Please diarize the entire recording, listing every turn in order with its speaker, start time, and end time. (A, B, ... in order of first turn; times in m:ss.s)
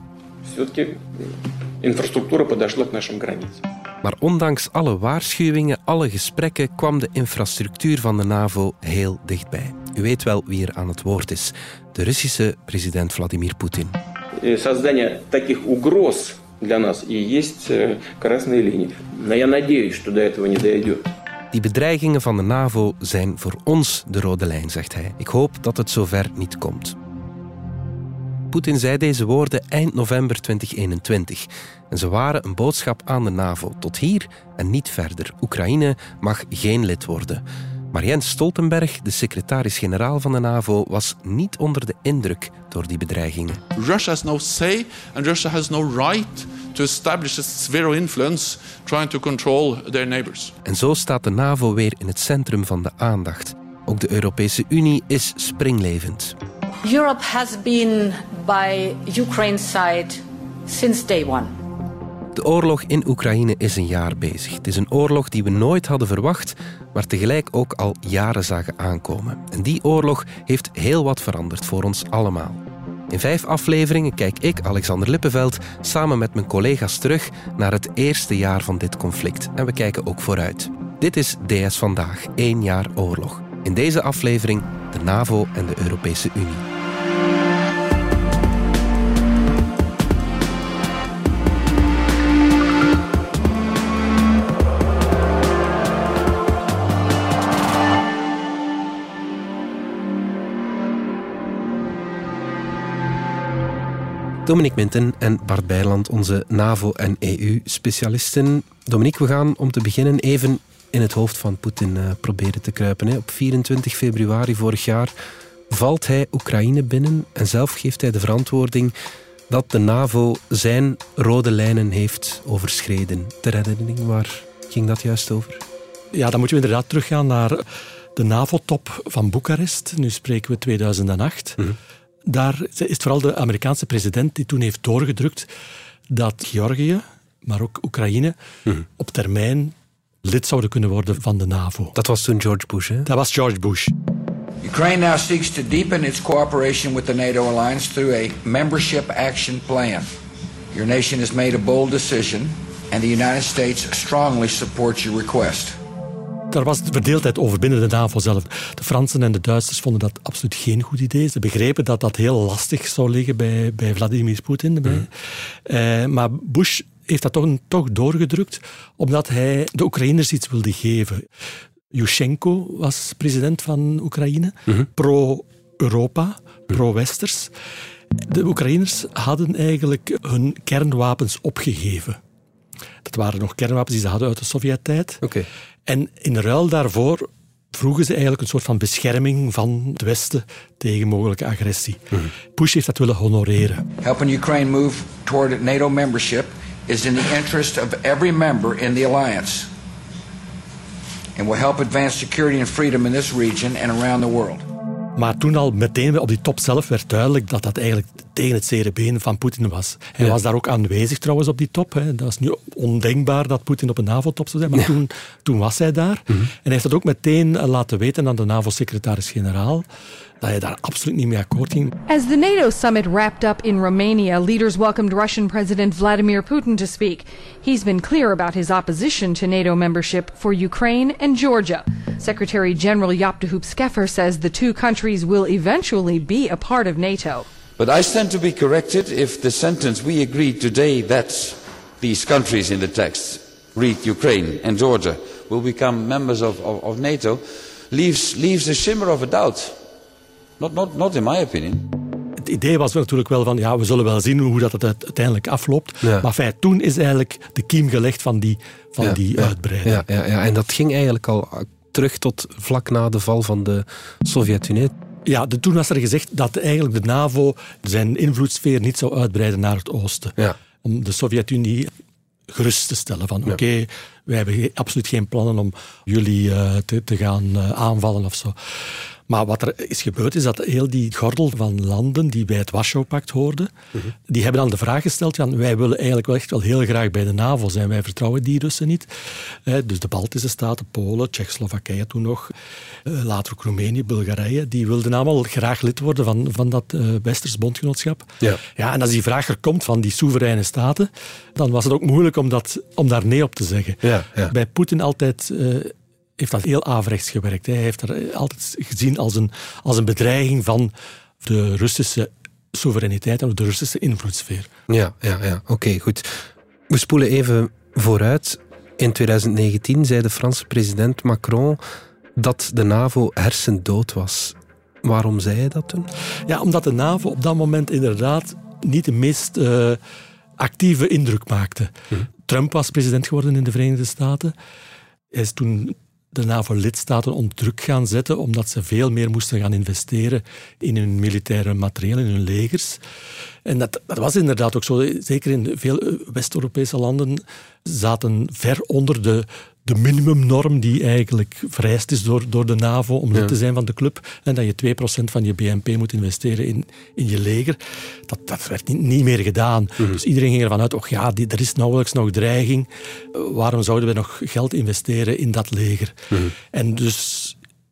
0:00.4-0:01.3 A
0:01.8-0:03.6 A
0:04.0-0:14.0 B
0:14.4-0:21.0 A
0:21.5-0:27.0 B
0:28.5-0:43.6 B
0:43.7-0:50.5 C
0:50.6-0:56.4 B
0:56.8-1:01.5 D
1:02.3-1:26.6 B
1:44.4-1:55.1 B
1:55.7-1:58.9 B
1:59.5-2:05.6 B
2:06.1-2:07.6 E
2:08.2-2:11.6 E
2:12.3-2:15.5 E
2:16.1-2:18.3 E
2:19.0-2:21.9 E
2:21.9-2:23.1 B
2:23.0-2:23.9 E
2:24.6-2:30.1 F
2:30.7-2:35.8 F
2:36.5-2:51.3 E
2:51.9-2:57.5 E
2:58.2-3:02.2 E
3:03.0-3:05.2 E
3:05.2-3:05.5 B
3:05.9-3:13.8 E
3:14.0-3:19.7 F
3:21.4-3:24.6 F
3:25.2-3:39.8 E
3:40.4-3:41.9 E
3:42.1-3:57.5 G
3:57.8-4:09.8 H
4:10.6-4:11.9 H
4:12.4-4:20.0 E
4:19.0-4:24.9 B
4:25.2-4:31.9 E
4:32.5-4:43.7 E
4:44.3-4:52.5 E
4:53.0-5:14.7 E
5:04.0-5:04.5 B
5:14.9-5:21.8 B
5:22.4-5:26.1 B
5:26.5-5:30.0 E
5:30.6-5:31.9 E
5:32.5-5:34.5 E
5:35.3-5:43.0 E
5:43.6-6:07.6 E